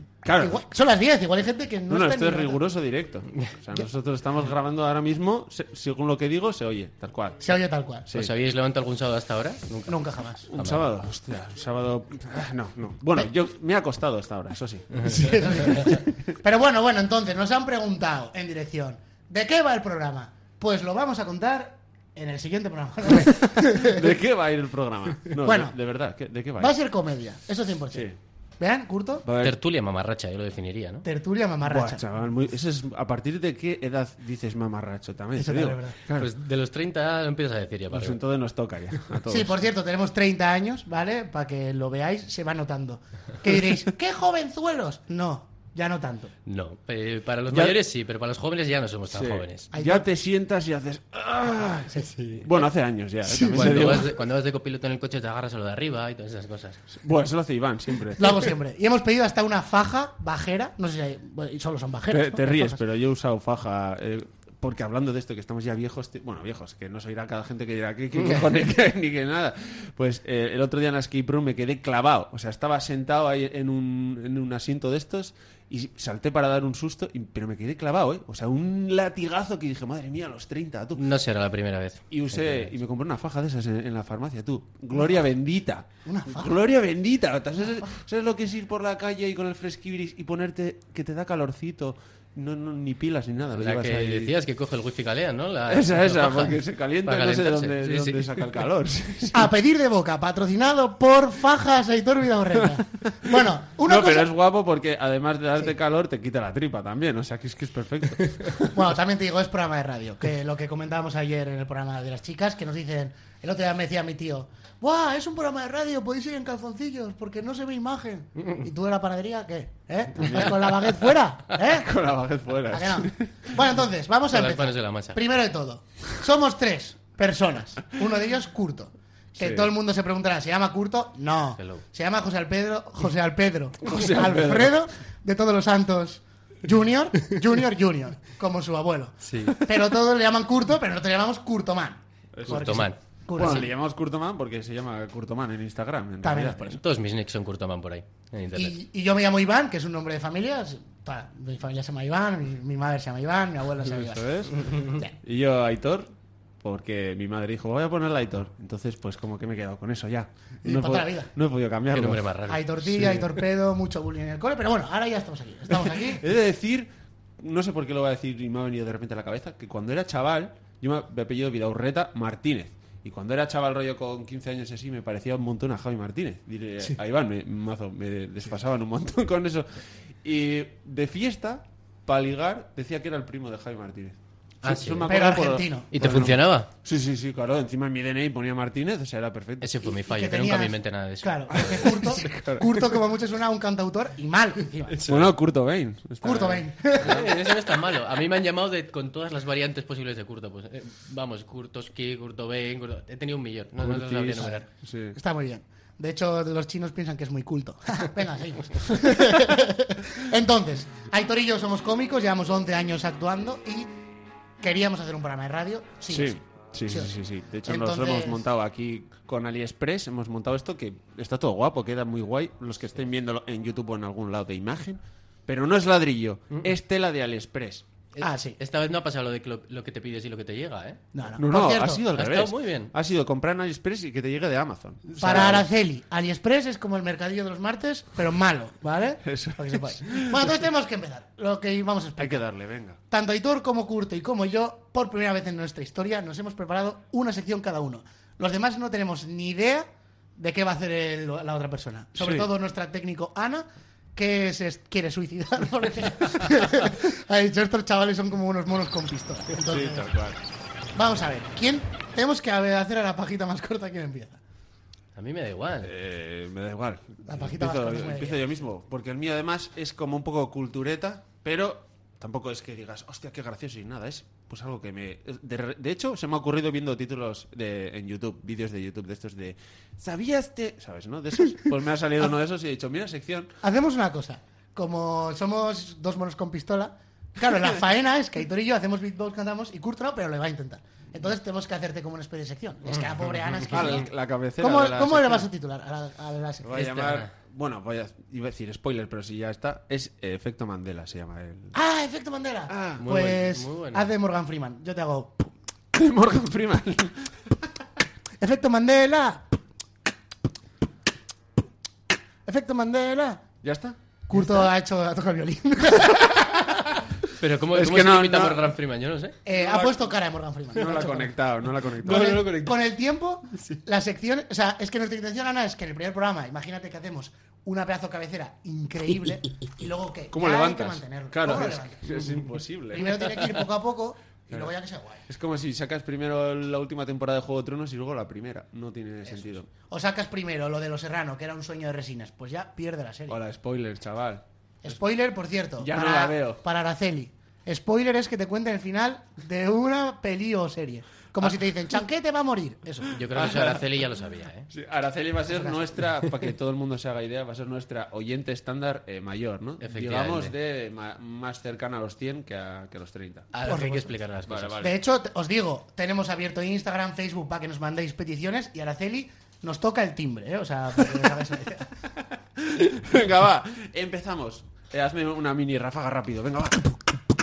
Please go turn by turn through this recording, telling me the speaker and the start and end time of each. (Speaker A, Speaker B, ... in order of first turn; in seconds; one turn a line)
Speaker A: 0.2-0.6
Speaker B: 0.4-2.6
Speaker A: 1.9-7.5
Speaker B: 7.4-8.1
Speaker C: 8.1-9.9
Speaker B: 9.9-10.5
Speaker A: 10.5-16.1
Speaker C: 10.5-10.8
Speaker B: 15.1-24.1
Speaker A: 23.4-26.8
Speaker B: 25.4-25.8
Speaker B: 26.6-29.2
Speaker A: 29.2-29.6
Speaker C: 29.4-31.1
Speaker B: 31.0-32.0
Speaker A: 31.6-36.3
Speaker B: 35.4-36.0
Speaker C: 36.1-38.2
Speaker A: 37.9-39.6
Speaker B: 39.3-46.3
Speaker C: 46.5-49.7
Speaker A: 47.5-47.8
Speaker A: 49.1-54.2
Speaker B: 49.7-50.0
Speaker C: 52.1-52.4
Speaker B: 53.2-53.9
Speaker C: 53.5-56.8
Speaker A: 57.0-58.2
Speaker B: 58.2-62.8
Speaker A: 62.1-81.0
Speaker C: 81.0-82.7
Speaker A: 82.1-94.3
Speaker B: 86.0-86.5
Speaker C: 93.5-98.2
Speaker A: 95.7-99.5
Speaker B: 99.3-104.3
Speaker A: 103.8-108.8
Speaker B: 108.7-121.9
Speaker A: 120.2-121.0
Speaker A: 121.5-123.5
Speaker B: 122.7-143.7
Speaker C: 124.3-125.2
Speaker A: 129.4-129.7
Speaker C: 131.6-131.8
Speaker A: 133.8-134.8
Speaker C: 139.2-139.6
Speaker A: 142.3-146.8
Speaker C: 142.4-143.0
Speaker B: 146.2-146.8
Speaker C: 146.7-148.7
Speaker B: 148.5-155.1
Speaker A: 153.9-156.1
Speaker A: 156.6-162.2
Speaker B: 160.6-161.3
Speaker C: 161.9-162.7
Speaker B: 162.5-166.2
Speaker A: 162.8-163.3
Speaker A: 166.2-179.7
Speaker A: 180.2-189.9
Speaker C: 184.6-185.1
Speaker B: 185.1-186.0
Speaker C: 185.9-186.7
Speaker C: 189.6-192.0
Speaker B: 190.0-195.0
Speaker A: 192.3-192.7
Speaker C: 194.9-195.3
Speaker A: 195.1-197.2
Speaker B: 196.2-197.3
Speaker C: 197.0-204.6
Speaker A: 203.8-205.2
Speaker B: 205.1-213.9
Speaker B: 214.6-217.1
Speaker A: 216.1-227.8
Speaker B: 217.6-218.4
Speaker C: 228.1-231.0
Speaker B: 228.2-228.6
Speaker B: 231.1-232.0
Speaker A: 231.4-235.6
Speaker C: 232.1-232.9
Speaker B: 235.2-242.4
Speaker A: 239.2-240.5
Speaker A: 242.2-243.0
Speaker B: 243.1-260.1
Speaker A: 252.2-252.5
Speaker A: 259.6-260.4
Speaker B: 260.9-264.4
Speaker C: 265.1-265.9
Speaker A: 265.8-283.5
Speaker B: 267.2-268.4
Speaker B: 283.6-297.2
Speaker A: 293.7-295.5
Speaker A: 296.6-301.7
Speaker B: 301.7-305.5
Speaker A: 302.7-303.1
Speaker C: 303.0-304.1
Speaker A: 305.9-307.3
Speaker B: 308.4-309.4
Speaker B: 312.4-313.5
Speaker A: 313.6-314.0
Speaker B: 314.3-316.4
Speaker A: 316.1-316.6
Speaker C: 317.4-319.4
Speaker A: 317.7-318.7
Speaker B: 319.4-321.3
Speaker A: 319.5-320.0
Speaker A: 320.7-322.4
Speaker C: 322.0-322.8
Speaker B: 322.0-332.3
Speaker A: 330.3-333.5
Speaker B: 332.9-335.2
Speaker A: 335.3-339.7
Speaker B: 339.2-343.4
Speaker A: 343.3-344.4
Speaker B: 344.8-353.2
Speaker A: 345.8-346.6
Speaker C: 353.1-354.7
Speaker A: 353.3-353.8
Speaker A: 354.7-363.5
Speaker B: 355.5-355.8
Speaker C: 359.8-360.5
Speaker C: 363.5-364.8
Speaker B: 363.6-364.1
Speaker A: 364.4-365.0
Speaker B: 364.8-371.9
Speaker A: 372.6-377.1